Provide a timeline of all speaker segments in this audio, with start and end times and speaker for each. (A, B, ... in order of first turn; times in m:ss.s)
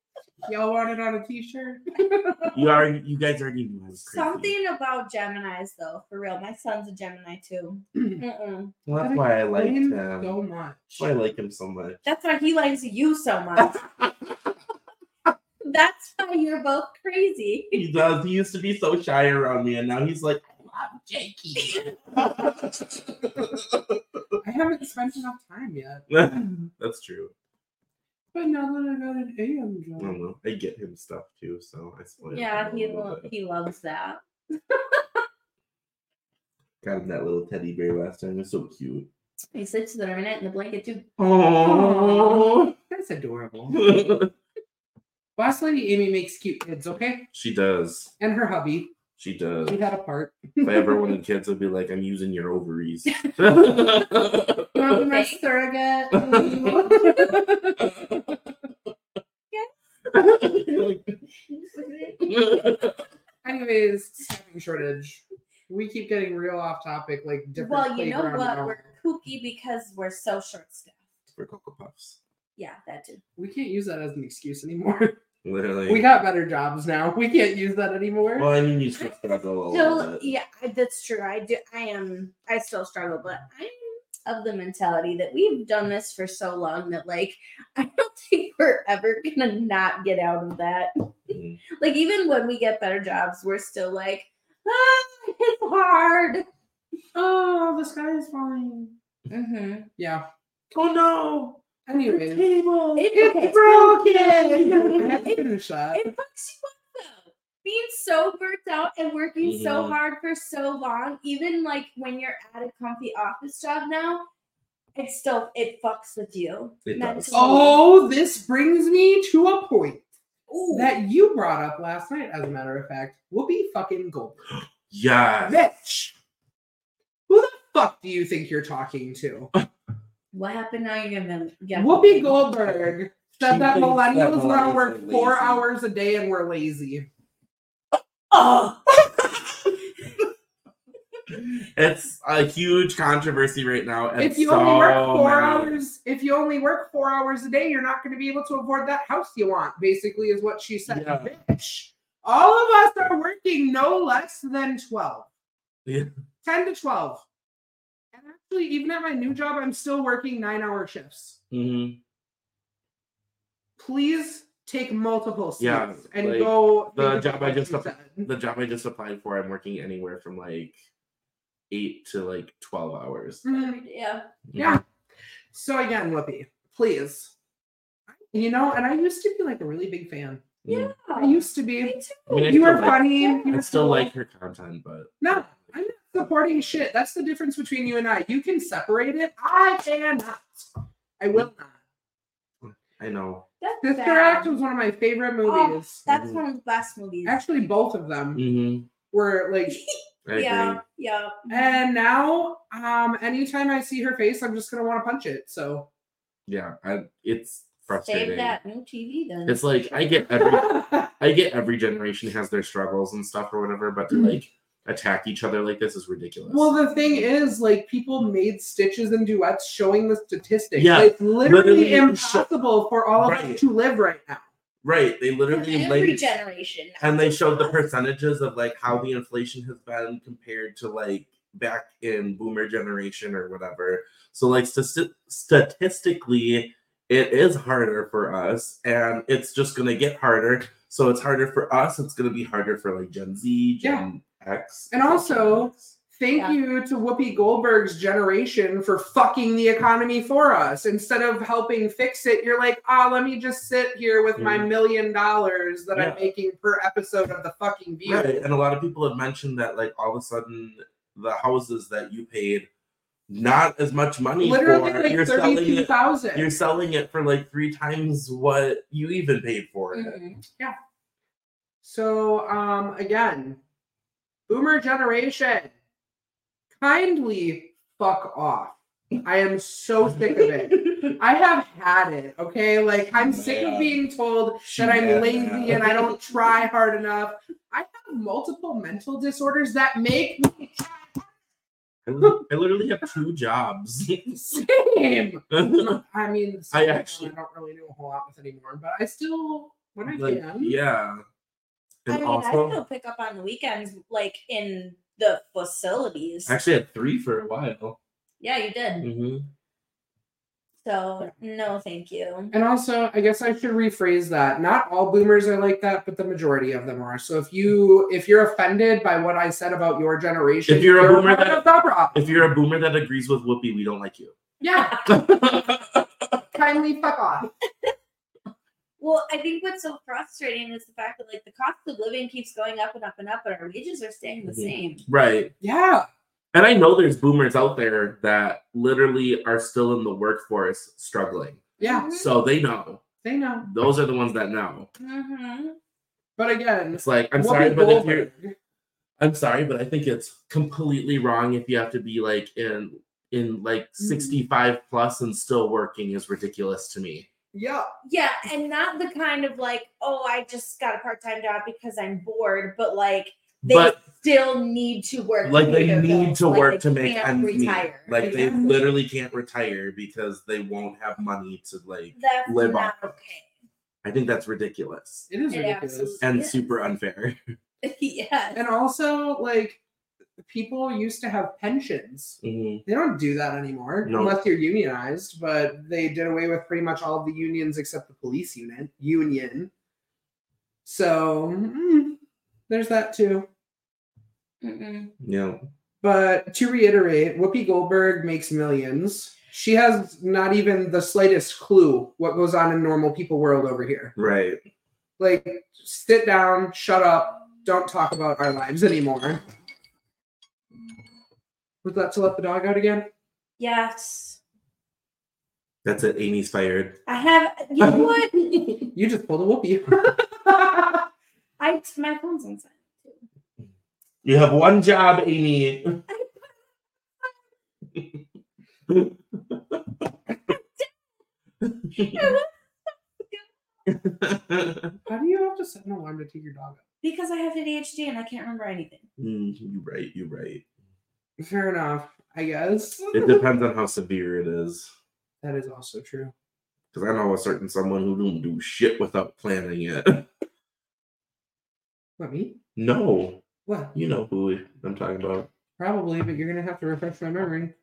0:00.4-0:02.6 A
0:02.5-0:04.5 B
0:04.0-0:08.7 C
0:08.8-0:10.3 B
0:09.0-0:11.1 A
0:11.0-0:12.0 B
0:12.0-0:13.8 C
0:13.6-0:14.3 B
0:15.6-0:17.8 C
0:17.7-0:24.4 B
0:24.4-0:26.1 A
0:26.1-0:27.3 B
0:28.3-0:30.2 A
0:30.0-0:33.3 B
0:32.3-0:34.2 C
0:36.8-0:39.1 B
0:39.5-0:41.0 C
0:41.2-0:42.7 B
0:41.6-0:43.9 A
0:43.7-0:44.3 B
0:45.4-0:47.3 A
0:47.3-0:48.1 B
0:48.2-0:49.0 A
0:49.2-0:49.8 B
0:49.6-0:51.1 A
0:50.6-0:54.9 B
0:54.7-0:57.8 A
0:54.8-0:55.5 C
0:56.1-0:57.4 C
0:56.1-0:57.2 B
0:57.8-0:58.4 B
1:00.1-1:01.2 B
1:01.5-1:02.4 C
1:02.2-1:03.0 B
1:03.4-1:08.9 A
1:07.6-1:11.0 C
1:11.3-1:12.2 B
1:12.6-1:13.2 C
1:13.4-1:15.2 A
1:15.4-1:16.0 B
1:15.9-1:18.5 A
1:18.4-1:20.3 B
1:19.7-1:36.4 C
1:31.3-1:31.6 B
1:37.1-1:38.9 A
1:39.3-1:39.9 C
1:40.0-1:40.2 A
1:40.7-1:45.2 B
1:41.8-1:42.5 A
1:43.0-1:54.3 C
1:43.1-1:46.0 A
1:49.4-1:50.0 B
1:54.9-1:57.8 C
1:56.8-1:57.4 B
1:57.3-2:00.1 A
2:00.5-2:00.9 C
2:00.7-2:04.4 A
2:04.9-2:05.6 B
2:05.4-2:06.1 A
2:07.3-2:09.5 A
2:10.3-2:12.4 C
2:11.8-2:17.1 A
2:13.4-2:15.6 B
2:18.3-2:18.8 C
2:19.1-2:19.7 B
2:21.3-2:25.8 B
2:24.2-2:35.3 A
2:30.9-2:31.3 B
2:35.8-2:36.1 B
2:36.4-2:37.2 A
2:38.1-2:41.4 A
2:41.5-2:42.0 B
2:43.8-2:48.3 A
2:45.6-2:50.8 B
2:51.7-2:53.4 B
2:53.4-2:53.8 A
2:53.5-2:54.3 C
2:54.5-2:54.8 B
2:54.6-2:54.8 A
2:55.5-2:57.3 A
2:58.3-3:00.4 A
3:00.6-3:00.9 B
3:00.7-3:03.6 C
3:01.1-3:04.1 A
3:02.3-3:05.4 B
3:05.2-3:11.7 A
3:12.6-3:13.4 B
3:13.6-3:14.6 C
3:13.8-3:16.0 A
3:15.4-3:17.4 C
3:16.1-3:16.4 B
3:17.2-3:18.4 A
3:18.3-3:18.9 B
3:19.1-3:19.8 A
3:19.7-3:21.6 C
3:20.2-3:20.8 B
3:21.5-3:25.9 A
3:26.5-3:28.6 B
3:28.0-3:30.1 C
3:29.5-3:36.8 B
3:30.4-3:31.1 A
3:36.5-3:44.4 A
3:40.8-3:42.5 B
3:43.2-3:43.6 B
3:44.8-3:46.2 B
3:45.5-3:47.8 C
3:47.0-4:05.9 B
4:03.8-4:04.1 A
4:04.9-4:18.4 A
4:14.4-4:14.7 B
4:15.9-4:16.3 B
4:18.0-4:22.7 B
4:23.3-4:30.2 B
4:24.4-4:26.5 A
4:29.9-4:30.4 C
4:31.8-4:33.6 A
4:34.5-4:35.7 A
4:36.8-4:51.3 A
4:40.1-4:41.2 B
4:43.1-4:44.0 B
4:44.6-4:46.2 B
4:52.0-4:54.6 B
4:54.5-5:00.8 A
4:55.5-4:56.0 B
4:56.7-4:57.3 B
5:00.1-5:01.2 B
5:02.0-5:02.8 B
5:02.1-5:06.6 C
5:06.5-5:08.0 B
5:08.4-5:09.1 C
5:09.0-5:09.5 B
5:10.8-5:12.5 C
5:12.5-5:22.3 A
5:20.7-5:24.3 B
5:24.6-5:25.0 A
5:24.6-5:25.1 C
5:25.0-5:26.4 B
5:26.5-5:27.5 A
5:29.0-5:35.0 C
5:34.4-5:35.5 B
5:35.6-5:36.0 A
5:36.5-5:43.0 B
5:41.8-5:42.3 C
5:41.8-5:42.1 A
5:43.2-5:43.7 A
5:43.6-5:44.9 B
5:45.0-5:45.8 C
5:46.4-5:48.5 A
5:46.9-5:48.3 B
5:49.2-5:57.3 B
5:54.0-5:54.4 A
5:57.5-5:57.9 A
5:58.0-6:08.2 C
6:03.6-6:04.0 B
6:05.4-6:13.0 B
6:08.2-6:08.9 A
6:12.1-6:13.5 C
6:14.0-6:15.3 B
6:15.3-6:16.2 A
6:15.5-6:16.6 C
6:16.2-6:17.4 B
6:17.8-6:18.6 C
6:18.5-6:19.8 A
6:20.4-6:29.7 A
6:22.4-6:22.8 B
6:24.0-6:24.4 B
6:30.8-6:32.2 A
6:32.7-6:33.5 A
6:34.6-6:35.1 C
6:35.2-6:35.6 B
6:36.0-6:44.1 A
6:44.2-6:44.6 B
6:45.2-6:49.4 A
6:51.8-6:53.1 A
6:53.6-6:54.4 C
6:55.8-6:57.0 B
6:57.0-6:58.7 C
6:57.8-6:58.1 B
6:58.9-7:01.0 A
7:01.6-7:03.2 C
7:04.2-7:06.0 B
7:06.1-7:06.5 C
7:08.9-7:10.1 B
7:10.5-7:10.9 C
7:11.6-7:12.4 B
7:12.0-7:12.5 C
7:13.8-7:15.0 B
7:15.0-7:16.8 A
7:17.0-7:19.0 C
7:19.2-7:20.6 B
7:21.4-7:23.4 A
7:23.1-7:24.9 B
7:25.4-7:26.3 A
7:26.9-7:30.3 B
7:32.2-7:32.6 A
7:32.8-7:33.4 B
7:33.6-7:33.9 A
7:33.9-7:35.5 B
7:35.8-7:37.7 A